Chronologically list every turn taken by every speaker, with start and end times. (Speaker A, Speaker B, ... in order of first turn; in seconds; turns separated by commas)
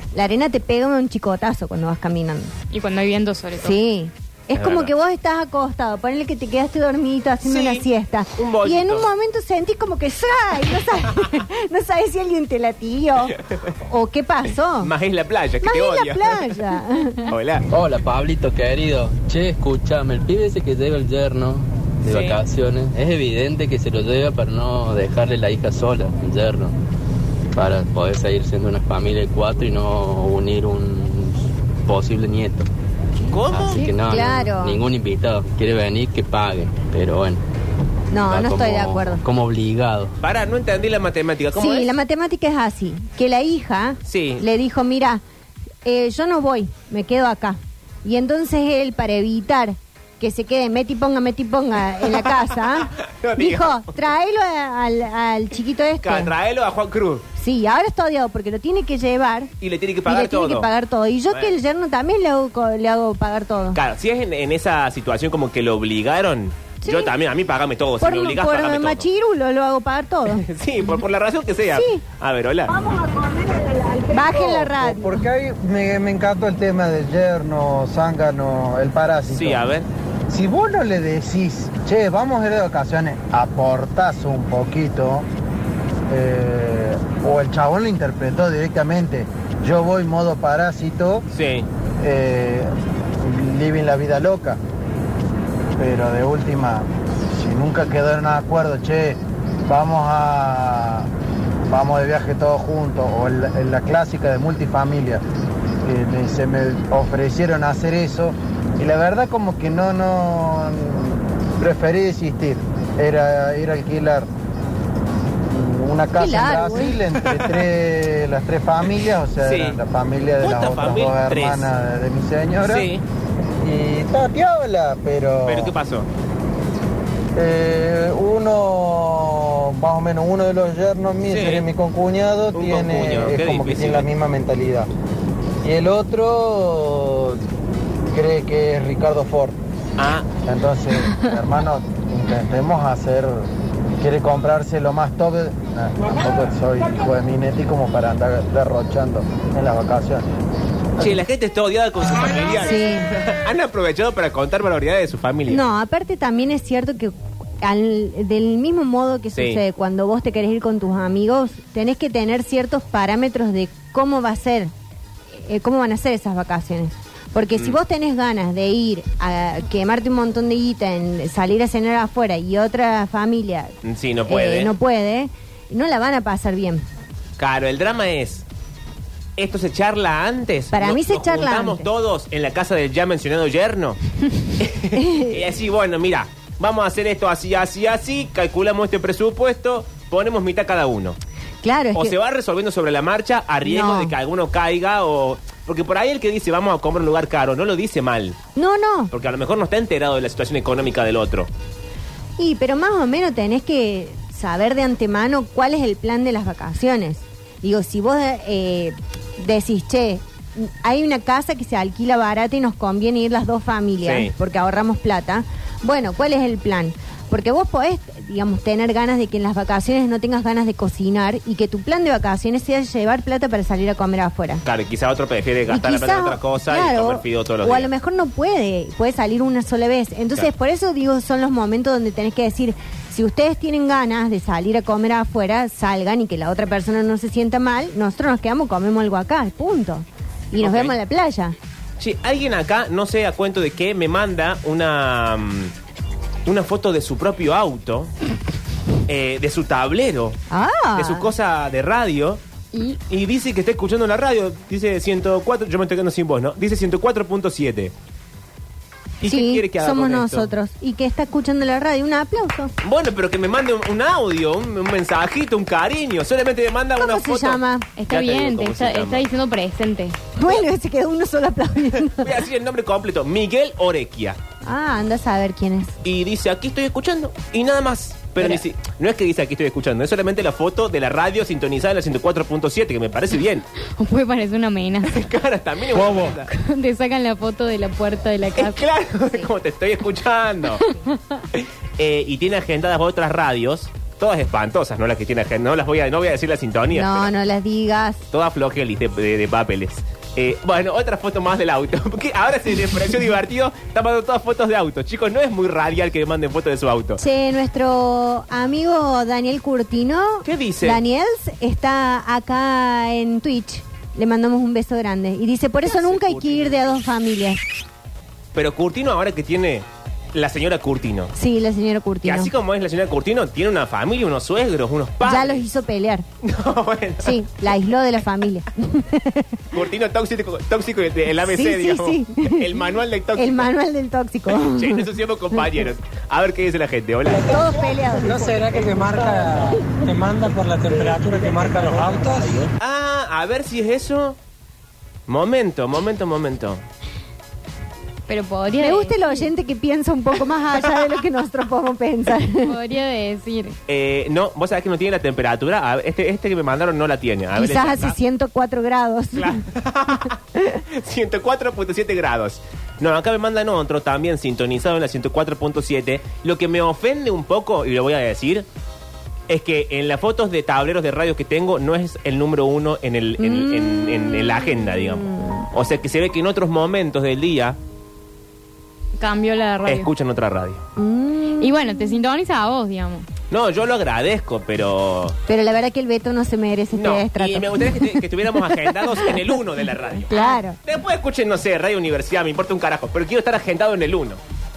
Speaker A: 0.1-2.5, Speaker B: 2.7-3.8, Speaker A: 3.6-14.9, Speaker C: 4.5-4.9, Speaker C: 7.4-9.1, Speaker C: 13.3-13.6, Speaker C: 14.8-16.6, Speaker A: 15.6-17.2, Speaker C: 17.3-17.6, Speaker D: 17.7-26.8, Speaker C: 22.1-22.4, Speaker D: 27.6-32.7, Speaker C: 33.3-33.8, Speaker D: 33.5-37.4, Speaker A: 34.0-34.8, Speaker A: 38.1-39.2, Speaker D: 38.2-40.2, Speaker C: 40.2-41.9, Speaker A: 41.5-45.2, Speaker C: 44.1-44.4, Speaker A: 45.9-56.3, Speaker C: 52.9-54.0, Speaker C: 56.0-57.2, Speaker A: 57.4-59.5, Speaker C: 59.6-60.7, Speaker A: 60.1-63.8, Speaker C: 63.8-69.0, Speaker A: 66.8-67.1, Speaker A: 68.0-70.4, Speaker C: 70.3-72.8, Speaker A: 71.7-72.0, Speaker A: 74.1-75.2, Speaker E: 74.3-79.6, Speaker C: 79.3-79.9, Speaker E: 80.3-85.3, Speaker E: 86.1-91.2, Speaker C: 91.3-91.7, Speaker E: 92.0-92.7, Speaker E: 93.2-94.6, Speaker E: 95.8-101.1, Speaker E: 101.7-105.2, Speaker E: 105.8-114.3, Speaker E: 115.5-122.9, Speaker A: 116.2-117.0, Speaker C: 119.4-119.8, Speaker C: 120.4-121.7, Speaker C: 122.7-123.0, Speaker E: 123.6-125.7, Speaker C: 125.5-126.1, Speaker E: 127.4-134.9, Speaker C: 131.3-131.7, Speaker C: 132.5-134.1, Speaker E: 135.6-137.4, Speaker E: 138.1-139.6, Speaker C: 140.0-140.3, Speaker E: 140.4-143.5, Speaker E: 144.0-150.3, Speaker C: 151.0-155.6, Speaker A: 152.6-153.1, Speaker A: 155.5-164.7, Speaker C: 159.3-159.6, Speaker A: 165.3-173.8, Speaker C: 173.8-174.7, Speaker A: 174.3-176.9, Speaker C: 177.4-178.4, Speaker C: 179.4-184.0, Speaker A: 180.7-181.9, Speaker C: 184.6-191.2, Speaker A: 184.9-185.4, Speaker A: 191.6-192.2, Speaker C: 191.9-198.4, Speaker A: 193.7-194.1, Speaker A: 198.6-199.1, Speaker C: 199.1-201.5, Speaker A: 202.4-224.6, Speaker C: 214.0-214.3, Speaker C: 224.7-227.9, Speaker A: 225.7-241.6, Speaker C: 240.6-240.9, Speaker C: 242.0-245.7, Speaker C: 246.5-248.1, Speaker C: 249.1-250.4, Speaker A: 250.5-251.3, Speaker C: 251.0-252.4, Speaker B: 252.7-253.0, Speaker C: 253.1-257.9, Speaker C: 259.2-260.5, Speaker A: 259.2-262.7, Speaker C: 262.8-269.2, Speaker A: 267.0-267.9, Speaker B: 268.0-270.2, Speaker A: 270.4-272.4, Speaker C: 272.1-274.4, Speaker A: 274.7-275.9, Speaker C: 276.0-283.7, Speaker B: 284.0-285.3, Speaker C: 285.0-286.5, Speaker B: 286.5-288.8, Speaker C: 288.6-290.8, Speaker C: 291.5-297.3, Speaker A: 296.9-298.2, Speaker C: 298.3-307.2, Speaker A: 307.2-317.6, Speaker C: 310.4-311.0, Speaker C: 315.9-316.9, Speaker C: 318.6-321.3, Speaker A: 321.4-322.5, Speaker C: 322.2-325.7, Speaker A: 325.2-326.3, Speaker C: 326.4-327.8, Speaker A: 327.2-329.6, Speaker C: 329.7-333.7, Speaker A: 331.4-332.8, Speaker A: 333.4-335.1, Speaker C: 334.5-337.6, Speaker A: 337.4-338.8, Speaker F: 338.7-342.4, Speaker C: 342.8-344.4, Speaker C: 345.3-346.8, Speaker B: 348.3-349.5, Speaker A: 348.8-352.7, Speaker B: 352.6-353.8, Speaker C: 353.9-358.2, Speaker A: 357.6-359.6, Speaker C: 359.4-360.4, Speaker A: 360.6-360.8, Speaker C: 360.9-368.7, Speaker C: 369.5-377.8, Speaker A: 373.4-375.7, Speaker B: 379.2-380.1, Speaker C: 379.9-380.8, Speaker A: 381.0-382.2, Speaker B: 381.6-383.3, Speaker C: 383.5-385.4, Speaker A: 385.5-389.6, Speaker C: 386.9-394.4, Speaker A: 390.3-390.8